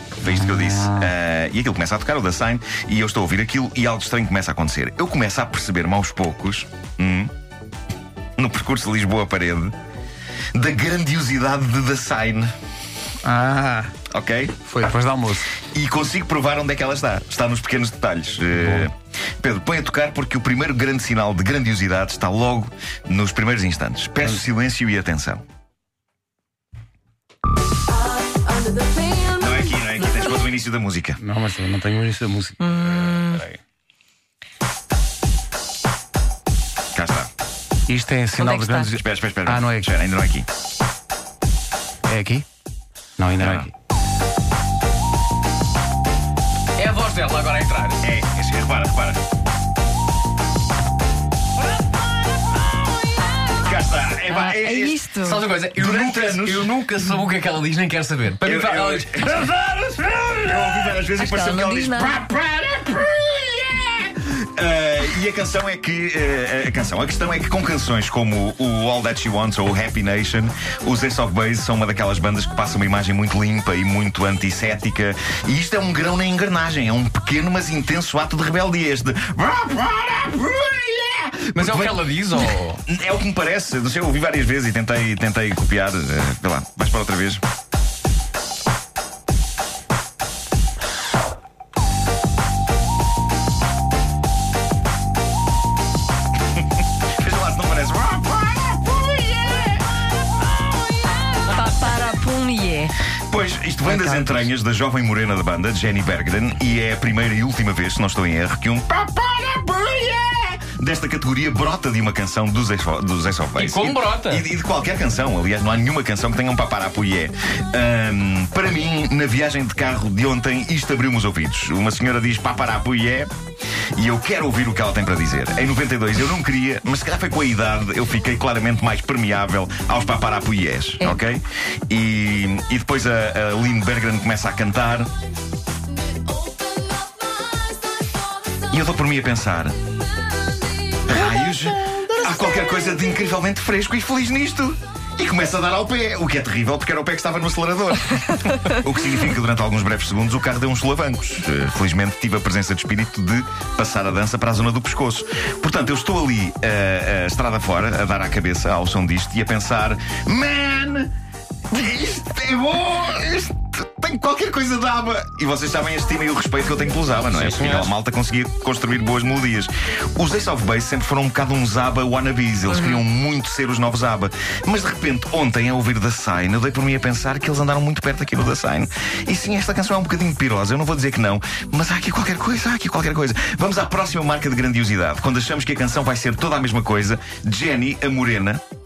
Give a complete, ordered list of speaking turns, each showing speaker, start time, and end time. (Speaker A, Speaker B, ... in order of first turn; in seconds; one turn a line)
Speaker A: 0.2-7.3
Speaker B: 0.3-1.1
Speaker A: 8.4-9.7
Speaker A: 10.5-12.5
Speaker B: 13.2-13.9
Speaker A: 14.1-14.6
Speaker B: 14.6-15.5
Speaker A: 15.7-25.4
Speaker C: 27.9-29.4
Speaker A: 29.3-31.2
Speaker B: 31.2-32.8
Speaker C: 32.6-33.4
Speaker A: 36.9-37.3
Speaker B: 37.9-39.9
Speaker C: 38.4-39.0
Speaker A: 38.9-40.5
Speaker B: 42.1-42.4
Speaker B: 43.2-43.7
Speaker A: 43.4-43.7
Speaker D: 46.8-48.0
Speaker A: 48.0-49.2
Speaker A: 53.6-55.0
Speaker C: 54.3-55.4
Speaker D: 55.2-59.3
Speaker A: 55.7-56.7
Speaker A: 58.4-87.4
Speaker C: 61.2-62.2
Speaker D: 81.5-82.8
Speaker A: 97.2-99.8
Speaker C: 101.5-103.0
Speaker A: 103.3-123.3
Speaker D: 103.8-104.5
Speaker D: 113.5-114.5
Speaker A: 123.9-135.1
Speaker A: 138.7-139.7
Speaker A: 141.0-161.1
Speaker A: 161.7-188.6
Speaker D: 167.3-167.9
Speaker C: 172.7-173.0